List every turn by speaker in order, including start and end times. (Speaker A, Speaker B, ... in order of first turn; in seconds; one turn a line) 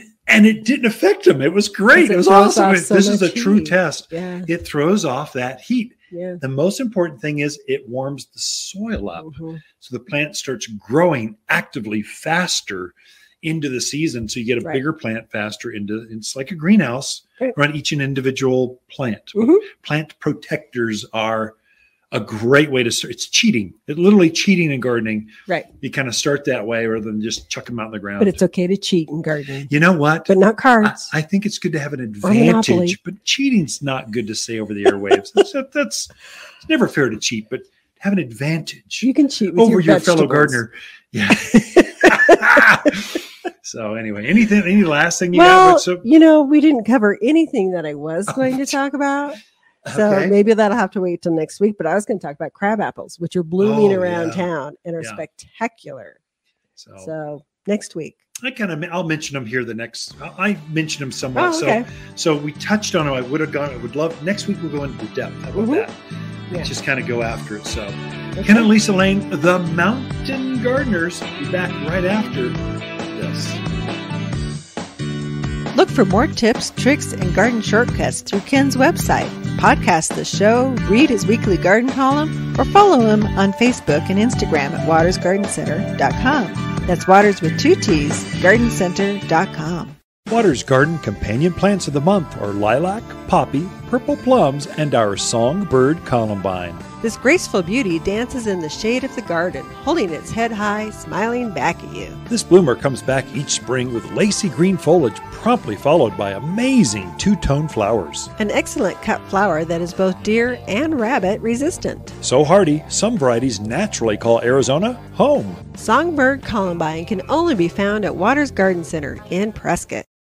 Speaker A: 0.3-21.5
Speaker B: 1.9-4.5
Speaker B: 6.1-6.4
Speaker B: 9.2-9.6
Speaker B: 19.3-19.6
Speaker A: 22.1-28.4
Speaker B: 28.2-29.7
Speaker A: 29.7-36.1
Speaker B: 30.3-31.1
Speaker B: 32.2-33.0
Speaker A: 36.6-46.0
Speaker B: 39.0-40.6
Speaker B: 41.5-42.6
Speaker B: 45.3-56.2
Speaker A: 48.3-48.8
Speaker A: 49.8-50.4
Speaker A: 53.6-54.5
Speaker A: 56.8-57.1
Speaker B: 57.0-58.2
Speaker A: 58.4-66.0
Speaker B: 61.4-61.9
Speaker B: 65.6-65.8
Speaker A: 66.5-73.6
Speaker B: 68.3-68.7
Speaker C: 75.7-90.0
Speaker A: 90.3-96.8
Speaker B: 97.0-102.2
Speaker A: 102.3-108.3
Speaker B: 108.4-112.2
Speaker A: 112.2-115.6
Speaker B: 115.7-120.0